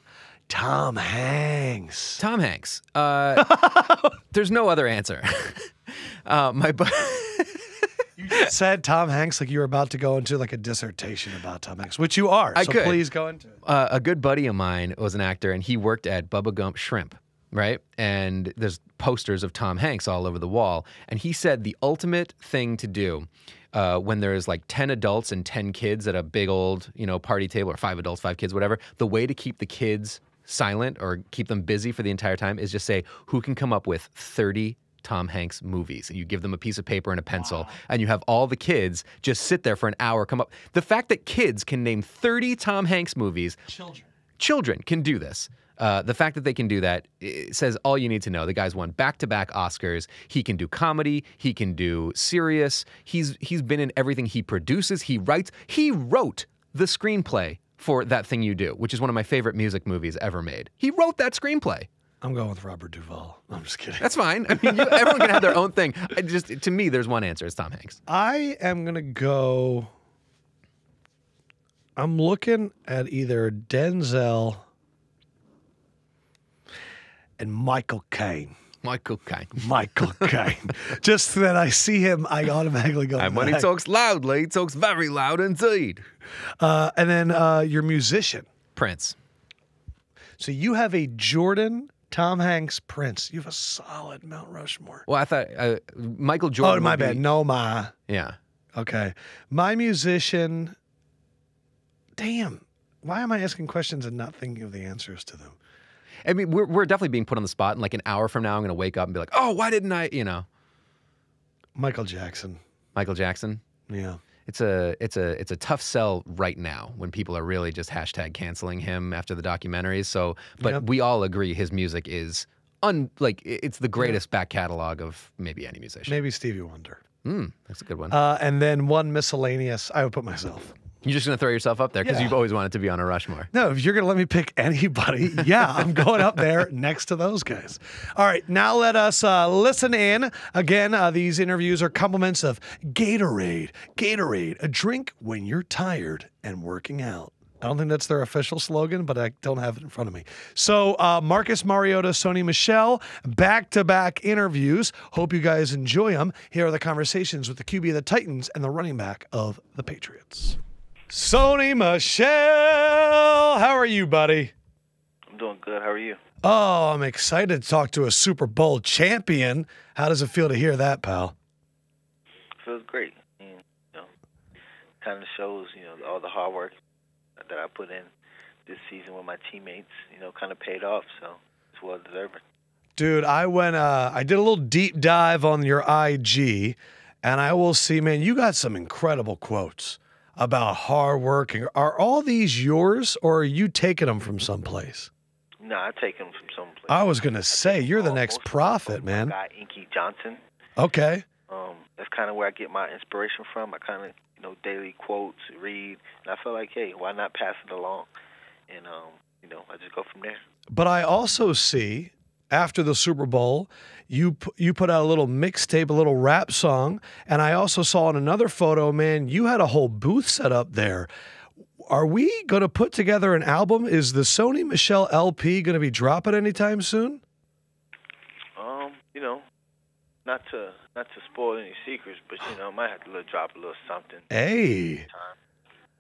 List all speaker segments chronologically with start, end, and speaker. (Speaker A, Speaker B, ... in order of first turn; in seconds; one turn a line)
Speaker A: 0.5-2.2
Speaker B: 2.2-3.6
Speaker A: 3.4-4.1
Speaker B: 4.3-8.5
Speaker A: 8.2-13.6
Speaker B: 12.6-13.0
Speaker B: 13.6-43.6
Speaker A: 37.4-37.8
Speaker A: 43.7-44.1
Speaker B: 44.4-61.9
Speaker A: 62.2-64.1
Speaker B: 64.0-68.0
Speaker A: 64.6-65.6
Speaker A: 68.1-69.9
Speaker A: 72.0-74.7
Speaker A: 77.4-78.5
Speaker B: 78.8-80.3
Speaker A: 79.6-83.7
Speaker B: 83.2-86.0
Speaker A: 86.6-88.5
Speaker B: 88.8-89.2
Speaker A: 90.4-95.0
Speaker B: 95.1-97.2
Speaker A: 96.6-97.9
Speaker B: 98.1-98.4
Speaker A: 98.7-100.8
Speaker A: 102.2-105.6
Speaker B: 106.2-110.5
Speaker A: 111.8-112.6
Speaker B: 113.0-113.6
Speaker A: 113.9-114.2
Speaker B: 114.5-126.2
Speaker A: 120.6-120.8
Speaker A: 126.1-127.0
Speaker B: 127.2-128.2
Speaker A: 128.1-130.8
Speaker B: 131.0-133.5
Speaker A: 132.0-132.4
Speaker A: 133.5-160.6
Speaker A: 161.1-164.5
Speaker C: 165.3-166.2
Speaker A: 166.4-171.3
Speaker C: 172.6-174.1
Speaker C: 175.0-176.8
Speaker C: 177.4-178.1
Speaker C: 178.7-182.4
Speaker A: 183.0-195.1
Speaker C: 195.6-200.4
Speaker A: 196.9-199.3
Speaker A: 200.8-201.3
Speaker C: 201.5-208.1
Speaker C: 208.7-210.4
Speaker A: 210.7-221.1
Speaker A: 221.8-227.2
Speaker C: 228.6-229.4
Speaker C: 230.2-234.3
Speaker A: 234.3-235.1
Speaker C: 235.1-235.3